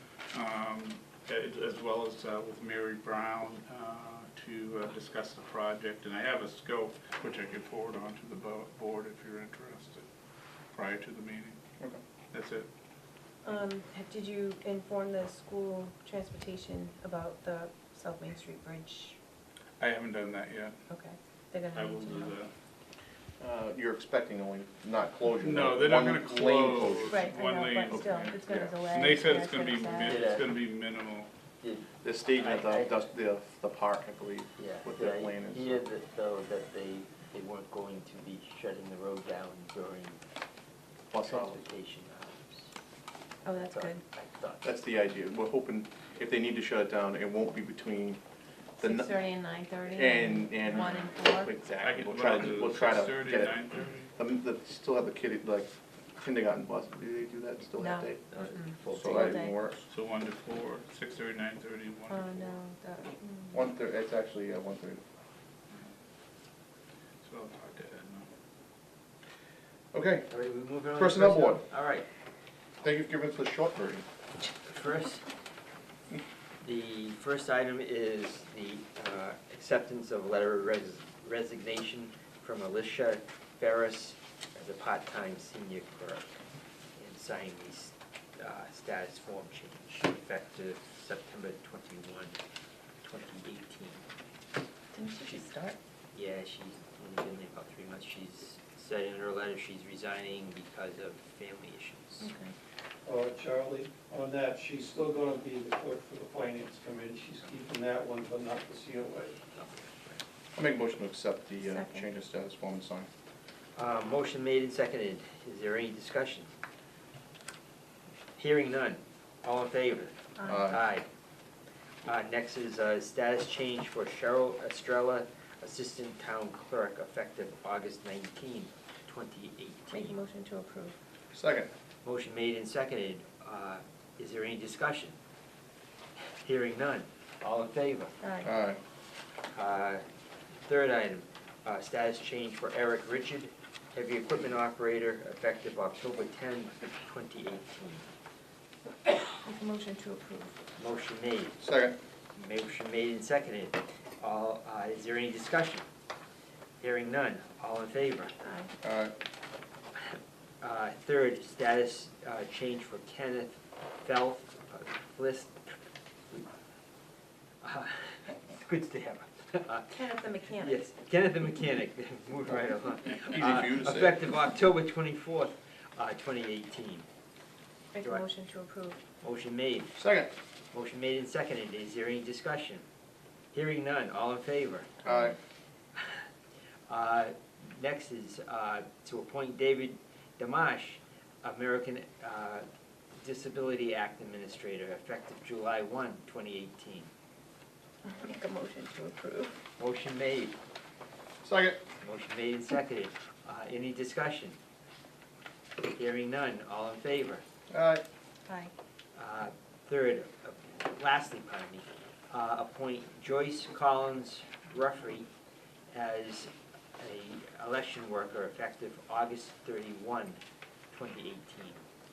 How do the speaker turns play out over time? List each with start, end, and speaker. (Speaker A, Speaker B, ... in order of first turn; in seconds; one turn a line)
Speaker A: 0.3-10.0
Speaker A: 10.7-11.6
Speaker A: 12.3-12.7
Speaker B: 13.4-19.2
Speaker A: 19.8-20.8
Speaker B: 20.9-22.3
Speaker A: 21.7-22.5
Speaker C: 23.4-27.2
Speaker A: 25.4-31.3
Speaker B: 27.0-30.3
Speaker C: 28.0-28.7
Speaker D: 29.9-30.5
Speaker D: 31.6-33.1
Speaker C: 32.0-35.8
Speaker D: 34.6-40.2
Speaker C: 41.1-41.6
Speaker D: 41.2-42.7
Speaker B: 43.4-44.0
Speaker D: 43.7-44.7
Speaker C: 44.6-48.2
Speaker C: 48.8-49.1
Speaker B: 48.8-51.5
Speaker C: 49.9-59.8
Speaker A: 51.8-54.1
Speaker B: 57.8-59.7
Speaker D: 58.3-59.3
Speaker A: 59.9-62.5
Speaker B: 62.1-63.7
Speaker C: 63.5-65.0
Speaker A: 67.2-68.3
Speaker C: 69.9-70.3
Speaker D: 70.3-72.0
Speaker C: 71.0-71.6
Speaker C: 72.8-74.0
Speaker D: 74.6-75.2
Speaker D: 76.6-86.4
Speaker D: 87.0-92.4
Speaker D: 93.0-94.0
Speaker B: 94.9-95.8
Speaker D: 96.1-102.3
Speaker B: 102.2-102.5
Speaker E: 103.0-109.3
Speaker D: 109.5-110.2
Speaker C: 110.5-113.1
Speaker B: 111.7-112.0
Speaker D: 113.7-116.5
Speaker D: 118.3-121.1
Speaker B: 120.4-120.6
Speaker C: 120.4-120.8
Speaker D: 122.0-130.2
Speaker B: 129.9-130.9
Speaker C: 131.3-131.7
Speaker D: 132.0-135.2
Speaker D: 136.4-138.1
Speaker B: 138.2-138.5
Speaker C: 138.4-138.8
Speaker D: 139.5-140.0
Speaker D: 140.6-148.1
Speaker B: 149.3-150.6
Speaker D: 150.8-151.6
Speaker C: 151.6-151.9
Speaker D: 152.3-155.8
Speaker D: 156.8-158.4
Speaker B: 158.4-158.7
Speaker C: 158.8-159.1
Speaker D: 160.1-165.8
Speaker D: 167.6-169.9
Speaker B: 169.9-170.7
Speaker D: 170.6-177.1
Speaker C: 173.1-174.2
Speaker B: 177.9-179.0
Speaker D: 179.2-179.9
Speaker C: 179.9-180.3
Speaker D: 180.7-182.8
Speaker D: 183.5-185.0
Speaker C: 185.0-185.3
Speaker D: 186.0-186.2
Speaker D: 186.9-197.1
Speaker B: 198.0-199.6
Speaker D: 199.8-200.6
Speaker C: 201.4-201.8
Speaker D: 202.0-204.6
Speaker D: 205.9-207.4
Speaker C: 207.7-208.0
Speaker B: 208.4-208.7
Speaker D: 209.1-215.3
Speaker D: 215.9-220.4
Speaker D: 220.9-221.8